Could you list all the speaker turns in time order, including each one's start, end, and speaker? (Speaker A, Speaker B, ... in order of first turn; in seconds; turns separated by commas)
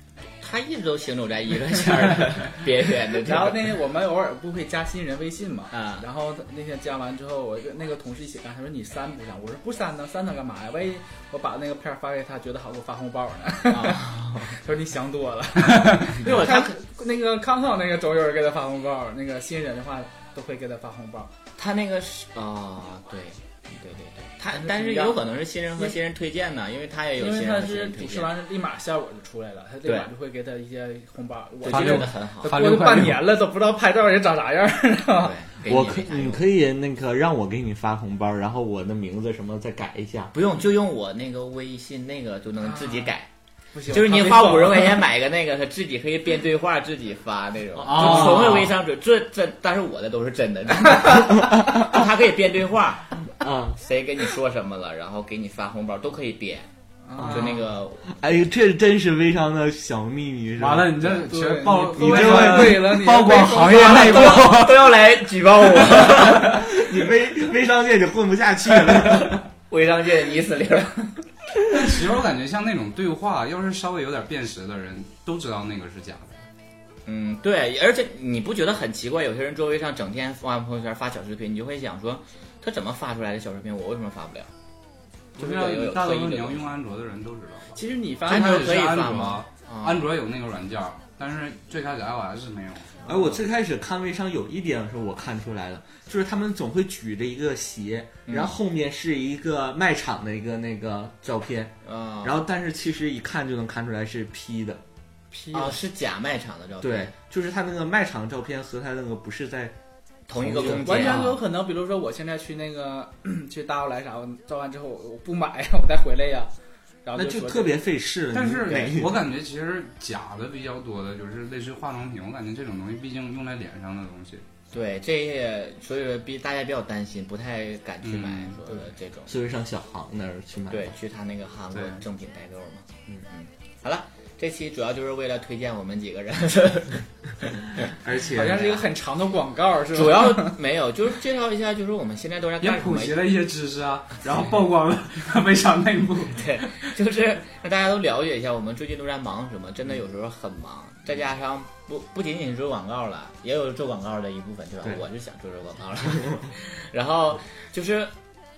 Speaker A: 0.4-3.6, Speaker B: 3.2-21.3, Speaker A: 5.7-6.0, Speaker A: 13.7-14.6, Speaker A: 16.2-16.8, Speaker A: 21.6-28.3, Speaker B: 24.5-25.2, Speaker B: 27.2-35.4, Speaker A: 31.6-32.6, Speaker C: 31.7-33.3, Speaker A: 35.2-36.5, Speaker D: 35.6-40.3, Speaker A: 40.3-43.3, Speaker B: 42.7-43.1, Speaker B: 43.7-45.0, Speaker A: 43.9-53.1, Speaker C: 47.8-48.7, Speaker D: 51.5-51.8, Speaker D: 53.4-53.8, Speaker A: 53.8-58.2, Speaker B: 57.1-57.6, Speaker D: 57.2-61.1, Speaker C: 60.6-65.0, Speaker B: 61.0-64.5, Speaker D: 62.0-63.1, Speaker A: 63.5-66.9, Speaker D: 65.9-69.4, Speaker A: 68.8-71.8, Speaker C: 71.7-76.5, Speaker A: 77.1-84.5, Speaker A: 85.4-86.7, Speaker C: 85.4-93.4, Speaker B: 87.8-88.7, Speaker A: 88.2-90.1, Speaker D: 93.1-104.8, Speaker A: 98.3-98.5, Speaker A: 101.8-102.4, Speaker B: 105.3-105.8, Speaker A: 105.5-107.1, Speaker D: 106.8-109.8, Speaker A: 110.3-111.4, Speaker D: 110.3-111.1, Speaker B: 110.6-116.5, Speaker C: 111.0-111.3, Speaker B: 117.1-117.8, Speaker D: 117.2-119.2, Speaker C: 118.3-124.4, Speaker A: 124.7-129.4, Speaker C: 128.0-128.6, Speaker D: 129.3-130.9, Speaker A: 130.7-137.9, Speaker C: 131.7-132.0, Speaker D: 137.9-138.8, Speaker B: 138.3-140.6, Speaker A: 139.9-143.2, Speaker C: 142.6-146.5, Speaker A: 146.3-158.2, Speaker D: 156.2-156.5